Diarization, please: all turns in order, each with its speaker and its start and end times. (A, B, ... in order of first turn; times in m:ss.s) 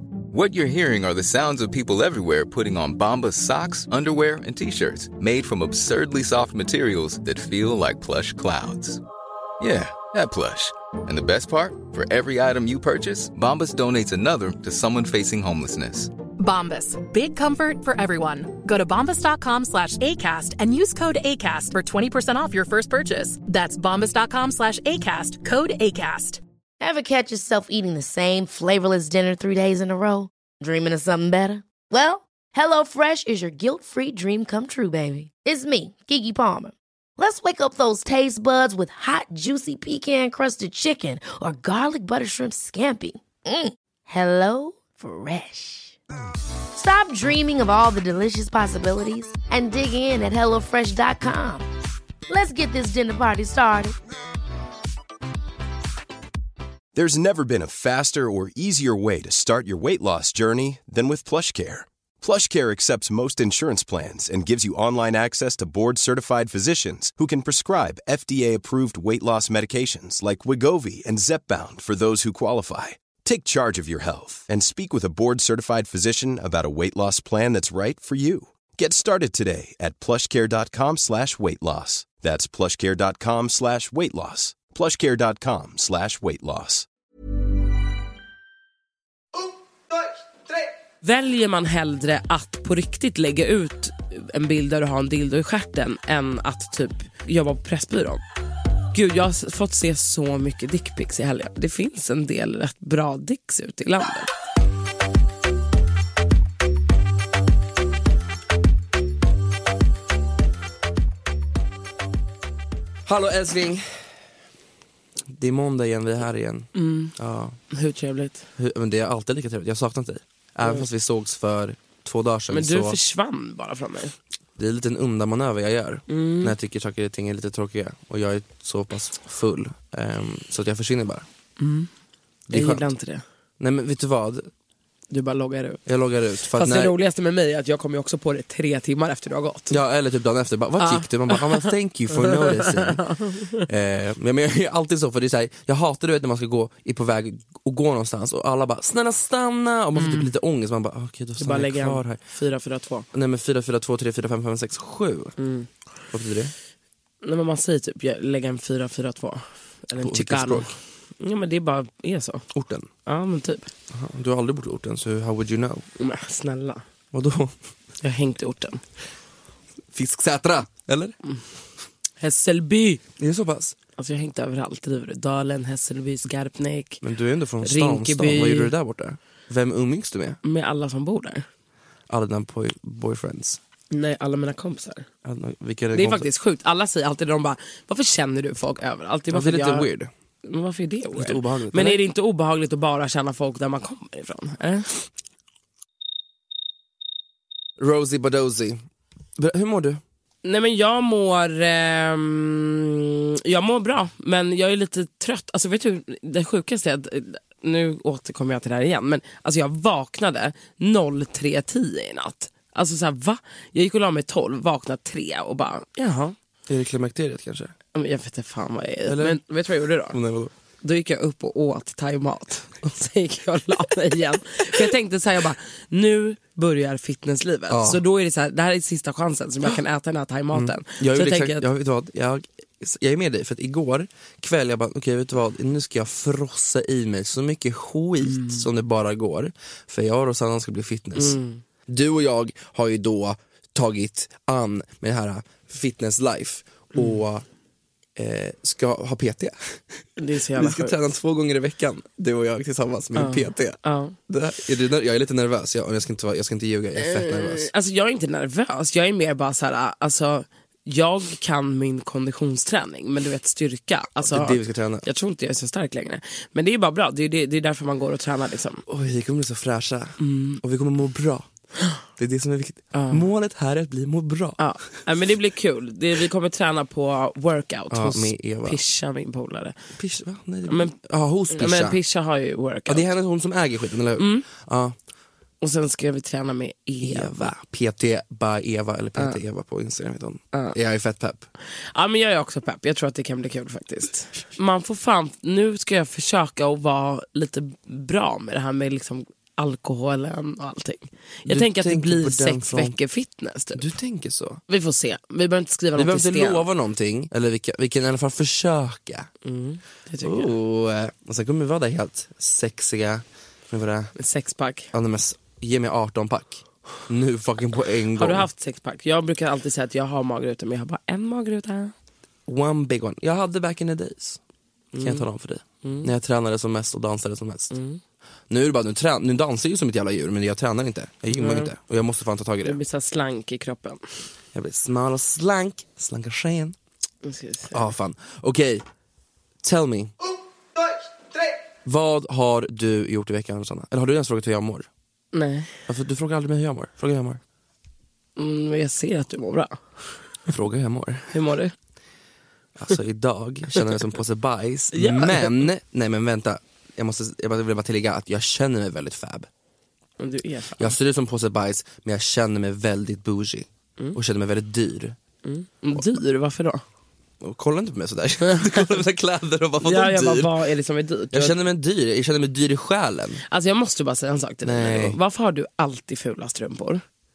0:00.3-0:09.0 A
0:09.6-0:16.1 A
0:16.4-0:26.4 B
0:26.8-0:46.0 C
0:46.8-0:51.7 C
0:52.3-0:54.0 C
0:56.9-1:26.9 D
1:31.0-1:38.2 E
1:38.9-1:44.3 E
1:53.0-1:54.1 F
1:55.3-1:57.6 F
1:56.8-1:57.1 E
1:57.7-1:58.5 E
1:58.6-2:03.0 F
2:02.5-2:04.2 E
2:04.6-2:11.3 F
2:06.1-2:06.5 E
2:11.6-2:11.9 E
2:12.5-2:12.9 F
2:12.5-2:13.2 E
2:13.6-2:14.5 F
2:15.1-2:15.8 E
2:15.9-2:17.0 F
2:16.5-2:19.8 E
2:19.7-2:32.2 F
2:20.8-2:23.6 E
2:30.0-2:30.3 E
2:31.4-2:33.1 E
2:33.1-2:35.3 F
2:35.4-2:35.7 E
2:36.1-2:36.5 F
2:37.2-2:42.5 E
2:40.0-2:40.8 F
2:42.5-2:42.9 F
2:43.1-2:43.7 E
2:43.9-2:45.9 F
2:46.0-2:46.8 E
2:47.1-2:47.6 F
2:48.0-2:48.8 E
2:49.9-2:51.2 F
2:52.2-2:53.0 E
2:53.2-2:53.8 F
2:54.0-2:57.0 E
2:57.0-3:00.4 F
2:57.6-2:58.7 E
3:00.4-3:01.5 E
3:02.1-3:03.6 F
3:03.9-3:05.1 E
3:05.2-3:06.3 F
3:05.9-3:09.9 E
3:09.3-3:10.1 F
3:10.4-3:15.1 E
3:11.1-3:12.0 F
3:17.8-3:18.8 F
3:19.4-3:20.0 F
3:20.4-3:36.4 E
3:36.7-3:37.7 F
3:37.9-3:40.2 E
3:39.1-3:39.4 F
3:40.1-3:40.5 F
3:40.8-3:51.7 E
3:47.7-3:48.0 F
3:50.5-4:07.5 F
3:58.3-3:58.6 E
4:01.2-4:01.6 E
4:08.2-4:10.0 F
4:10.2-4:11.0 E
4:10.5-4:17.7 F
4:13.2-4:14.2 E
4:17.0-4:28.8 E
4:24.2-4:25.0 F
4:28.9-4:31.5 F
4:30.2-4:30.6 E
4:32.2-4:34.6 F
4:32.9-4:33.3 E
4:34.6-4:39.8 E
4:37.9-4:38.8 F
4:40.0-4:42.0 F
4:40.7-4:41.0 E
4:41.5-4:43.1 E
4:42.9-4:45.0 F
4:44.2-4:44.5 E
4:45.6-4:47.5 E
4:47.0-4:51.5 F
4:51.9-5:03.9 E
5:01.5-5:03.0 F
5:03.8-5:04.6 F
5:04.7-5:06.7 E
5:06.0-5:09.3 F
5:09.4-5:10.5 E
5:10.2-5:14.1 F
5:14.2-5:14.9 E
5:14.9-5:18.5 F
5:18.2-5:21.9 E
5:22.5-5:24.4 F
5:24.9-5:25.3 E
5:25.0-5:27.8 F
5:25.8-5:26.1 E
5:27.7-5:28.0 E
5:28.5-5:32.8 F
5:31.3-5:31.7 E
5:32.6-5:34.0 E
5:34.5-5:36.8 F
5:37.2-5:37.9 E
5:37.7-5:38.9 F
5:39.6-5:40.1 F
5:41.8-5:44.9 F
5:45.3-5:45.7 E
5:45.9-5:47.4 F
5:48.4-5:49.8 E
5:50.5-5:51.3 F
5:51.3-5:51.7 E
5:52.8-5:59.5 F
5:54.9-5:55.7 E
6:00.2-6:01.0 E
6:00.8-6:05.2 F
6:05.4-6:06.8 E
6:07.4-6:10.6 F
6:08.4-6:08.9 E
6:09.8-6:11.6 E
6:11.3-6:13.4 F
6:13.5-6:17.0 E
6:14.6-6:15.2 F